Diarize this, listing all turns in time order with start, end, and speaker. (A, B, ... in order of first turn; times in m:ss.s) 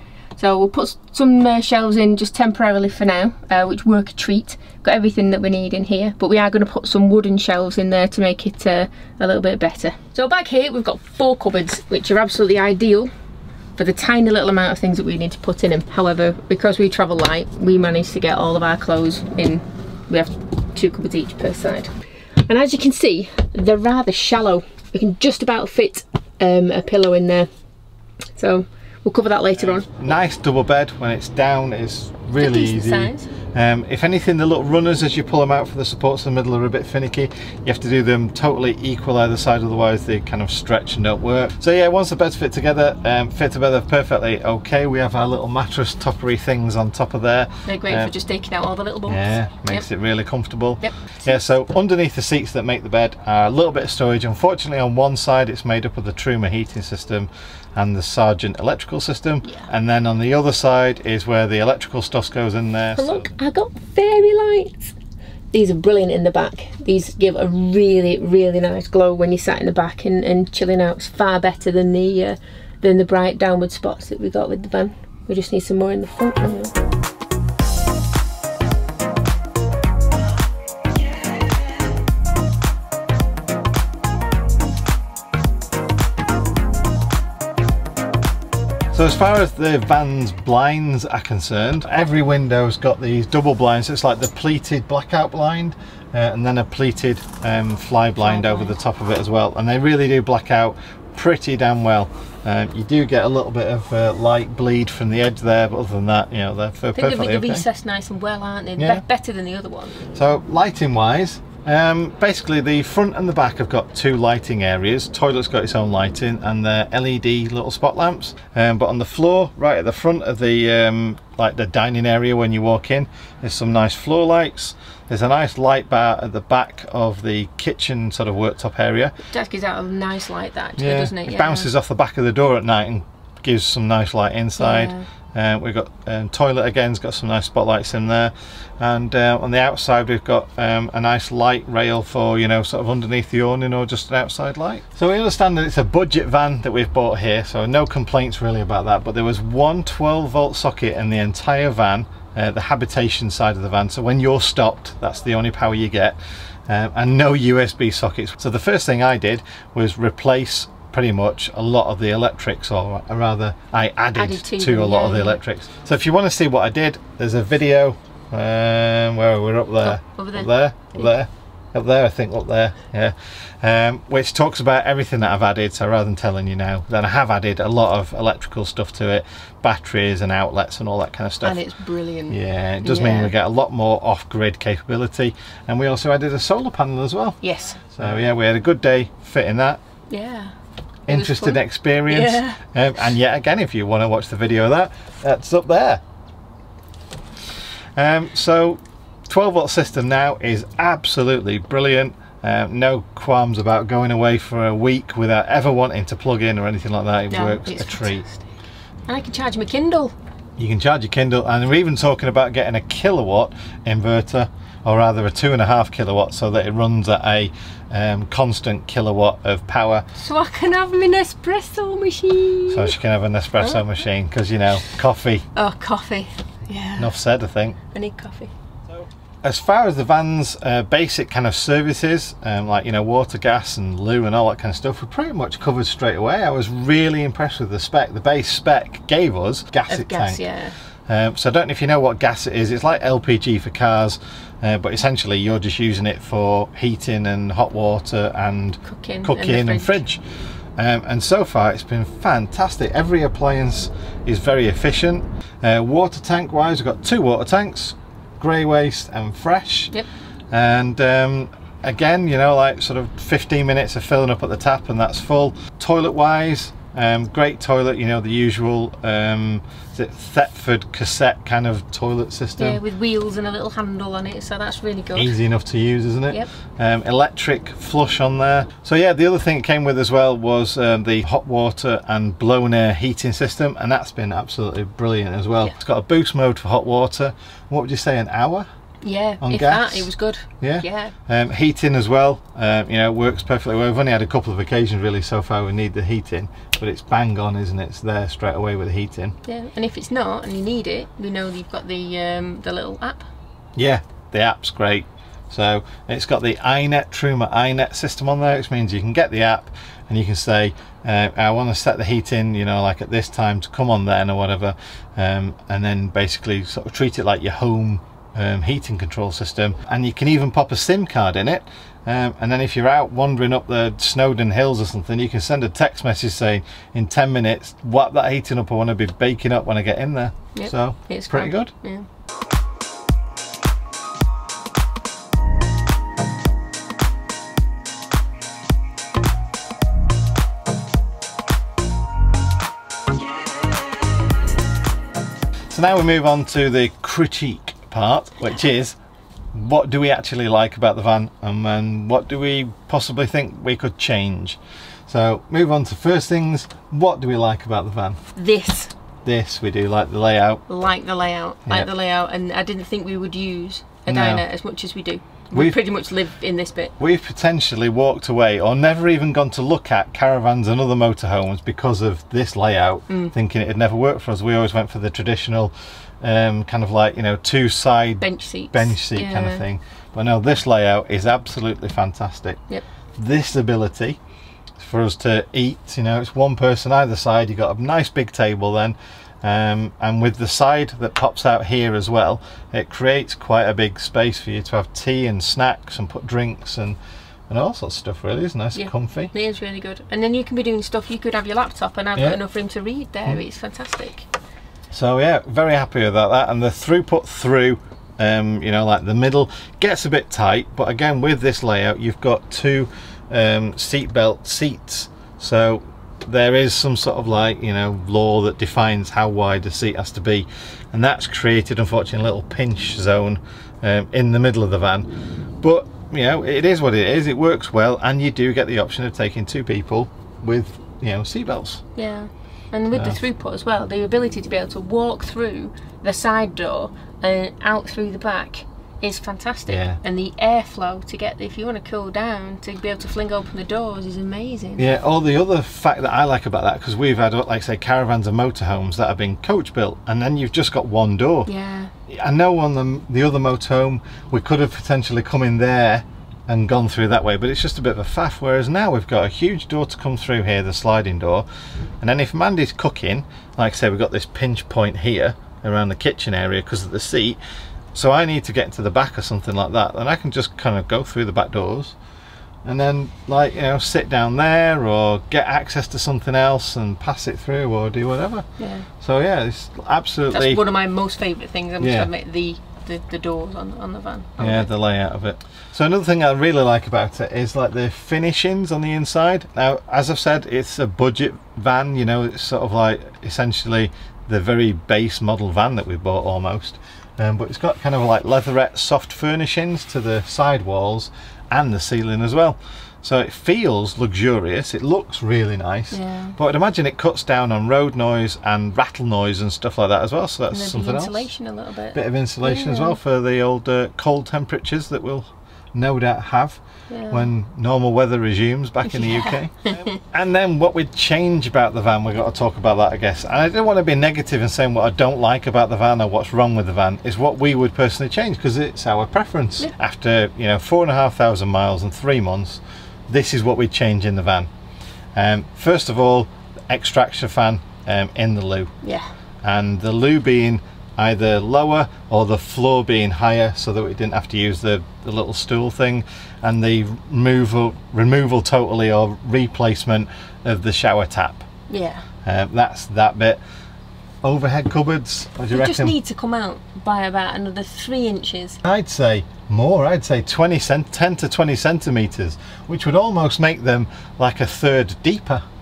0:00.4-0:13.1 A
0:13.8-0:21.9 A
0:22.5-0:27.5 A
0:28.3-0:29.9 A
0:29.6-0:48.1 B
0:32.4-0:33.3 A
0:47.6-0:49.8 A
0:49.1-1:03.3 B
0:50.8-0:51.4 A
1:02.9-1:04.9 A
1:05.5-1:16.7 A
1:28.9-1:47.6 B
1:38.2-1:38.7 A
1:46.9-1:50.0 A
1:48.8-1:49.0 B
1:50.1-2:09.1 B
2:09.3-2:11.7 A
2:10.8-3:01.6 B
2:14.6-2:15.0 A
2:44.1-2:45.4 A
2:49.8-2:51.1 A
3:01.4-3:03.3 A
3:02.3-3:07.4 B
3:07.4-3:07.8 A
3:07.9-3:09.8 B
3:10.1-3:10.5 A
3:11.1-3:12.6 A
3:11.1-3:16.0 B
3:18.0-3:28.2 B
3:27.3-3:28.4 A
3:29.1-3:30.1 A
3:30.6-3:40.0 B
3:40.2-3:42.9 A
3:42.7-3:45.4 B
3:43.6-3:43.9 A
3:45.5-3:47.1 A
3:47.0-3:47.8 B
3:47.9-3:48.5 A
3:49.4-4:00.4 B
3:59.9-4:00.7 A
4:01.1-4:10.2 B
4:08.8-4:10.0 A
4:10.8-4:19.9 B
4:20.5-4:32.8 B
4:32.6-4:35.3 A
4:35.1-4:48.7 B
4:49.0-4:51.1 A
4:49.4-4:59.4 B
4:59.4-5:03.3 A
5:03.8-5:31.7 B
5:30.5-5:32.0 A
5:45.7-5:49.0 B
5:49.5-5:58.2 B
5:58.3-5:58.9 A
5:59.2-6:00.6 B
6:00.7-6:06.9 A
6:04.1-6:04.4 B
6:07.0-6:22.6 B
6:13.1-6:13.3 A
6:18.2-6:19.6 A
6:23.2-6:24.2 B
6:24.8-6:37.0 B
6:37.5-6:39.3 B
6:38.7-6:44.3 A
6:44.9-7:05.1 B
7:05.6-7:11.8 B
7:11.9-7:24.9 A
7:12.9-7:13.2 B
7:19.7-7:20.0 B
7:24.8-7:31.5 B
7:31.5-7:31.9 A
7:32.1-7:41.5 B
7:42.0-7:47.4 B
7:47.9-7:52.0 B
7:52.6-7:58.4 B
7:58.6-7:58.9 A
7:59.0-8:00.6 B
8:00.3-8:04.7 A
8:01.8-8:02.1 B
8:04.4-8:31.3 B
8:25.9-8:26.4 A
8:30.5-8:33.0 A
8:31.9-8:54.5 B
8:36.9-8:37.3 A
8:38.9-8:40.0 A
8:55.2-8:58.7 B
8:58.8-8:59.1 A
8:59.4-9:11.4 B
9:11.7-9:12.0 A
9:12.2-9:13.4 B
9:14.2-9:16.0 B
9:15.5-9:18.6 A
9:18.6-9:25.4 B